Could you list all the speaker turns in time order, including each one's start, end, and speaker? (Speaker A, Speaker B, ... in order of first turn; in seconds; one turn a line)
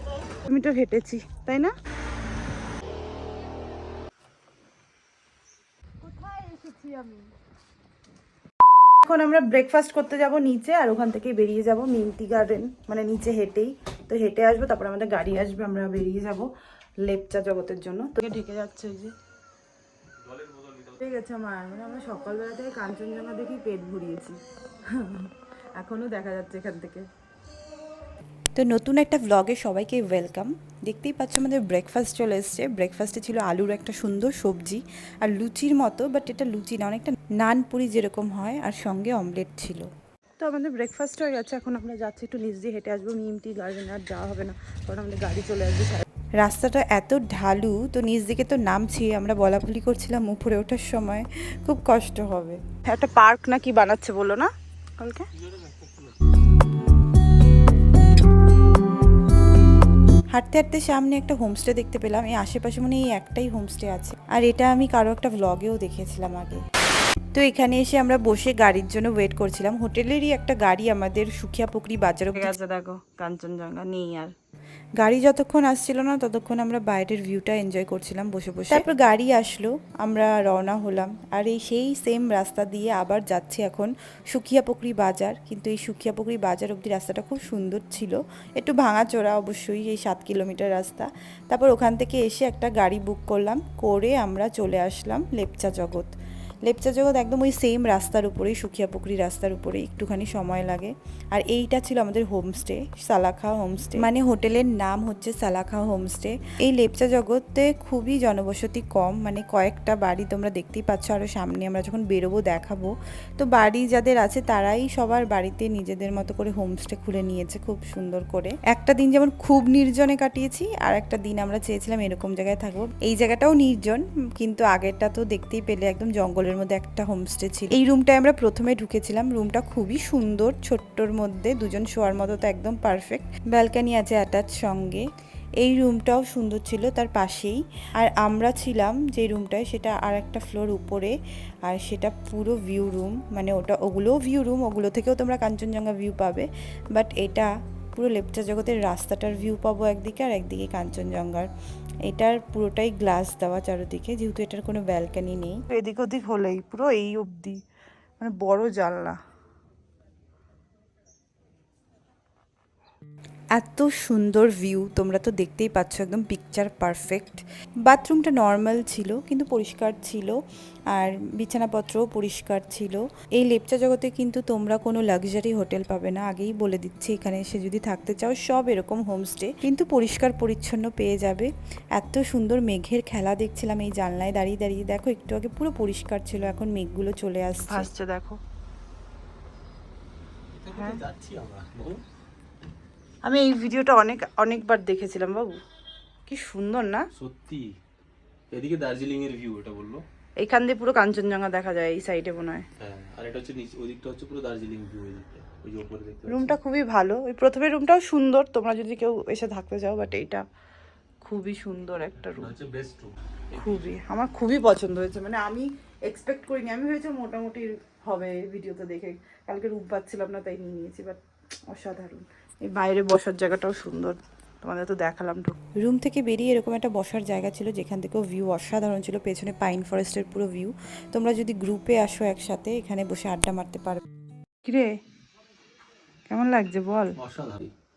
Speaker A: 0.5-1.7
Speaker A: 6.0-7.3
Speaker A: 9.0-16.5
Speaker A: 17.0-19.1
Speaker B: 20.3-20.9
Speaker A: 20.9-27.0
Speaker C: 28.5-39.9
Speaker A: 40.4-46.0
Speaker C: 46.4-52.6
Speaker A: 52.8-55.3
Speaker B: 55.5-56.1
Speaker C: 60.3-66.6
Speaker C: 67.3-72.5
Speaker A: 72.3-74.3
Speaker C: 75.0-96.1
Speaker A: 78.4-78.8
Speaker C: 96.6-135.1
Speaker C: 135.6-141.2
Speaker C: 141.7-151.5
Speaker C: 152.1-155.6
Speaker A: 155.7-157.6
Speaker A: 158.2-159.2
Speaker C: 163.6-170.4
Speaker C: 170.9-187.9
Speaker A: 187.6-188.4
Speaker B: 190.6-192.0
Speaker A: 190.7-191.0
Speaker A: 193.2-195.6
Speaker A: 196.3-197.1
Speaker B: 197.2-197.7
Speaker B: 198.5-200.0
Speaker A: 200.4-202.7
Speaker B: 202.8-206.6
Speaker A: 206.3-210.4
Speaker A: 211.2-212.5
Speaker B: 212.2-213.9
Speaker A: 213.5-225.6
Speaker C: 225.8-234.0
Speaker A: 234.6-234.9
Speaker A: 236.3-237.1
Speaker B: 237.2-237.7